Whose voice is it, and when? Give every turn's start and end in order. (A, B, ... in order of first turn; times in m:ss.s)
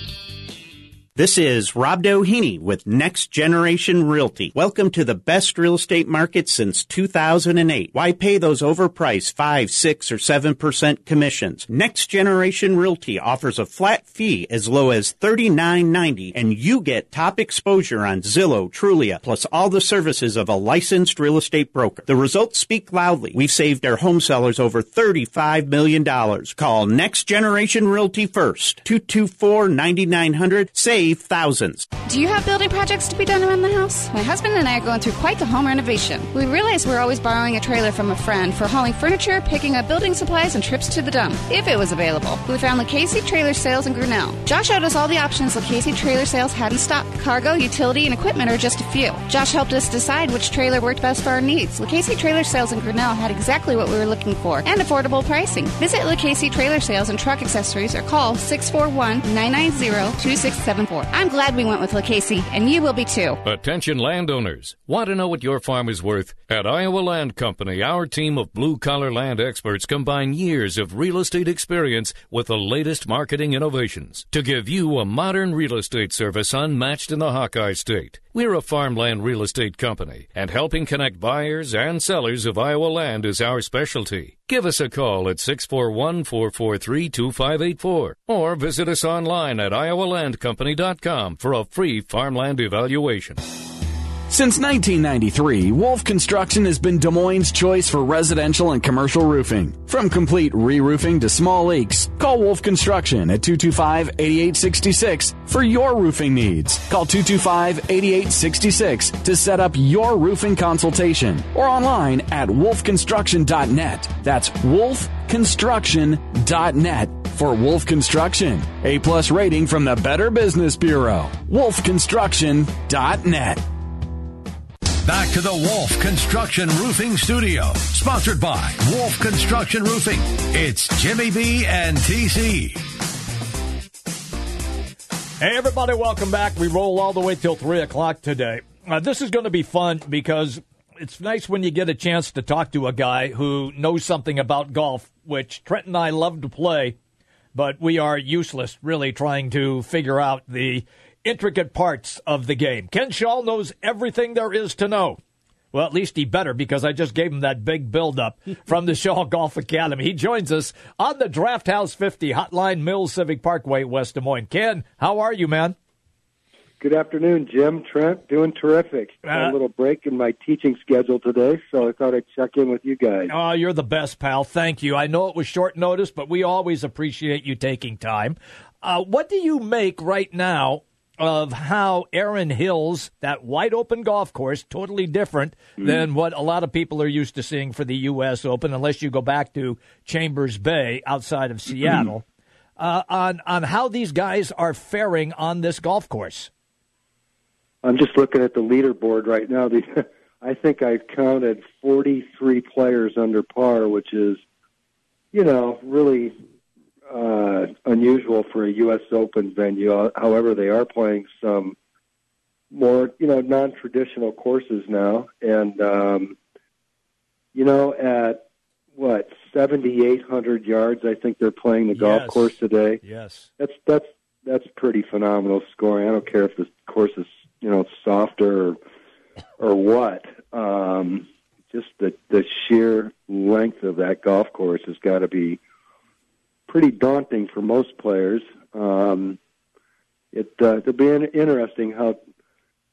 0:01.2-0:31.9 A
0:32.0-1:03.4 B
1:03.4-1:33.4 C
1:34.3-2:03.6 D
2:05.0-2:12.8 E
2:15.4-2:27.0 F
2:27.5-2:35.2 F
2:35.7-2:45.8 F
2:46.8-2:53.3 G
2:49.2-2:49.5 F
2:53.3-3:12.2 F
3:12.8-3:16.5 F
3:17.8-3:24.4 G
3:25.3-3:26.4 G
3:27.1-3:31.8 G
3:32.7-3:36.4 G
3:37.5-3:43.0 G
3:41.9-3:43.5 F
3:43.6-3:48.8 G
3:49.6-3:55.6 G
3:56.7-3:59.4 G
4:00.3-4:02.2 G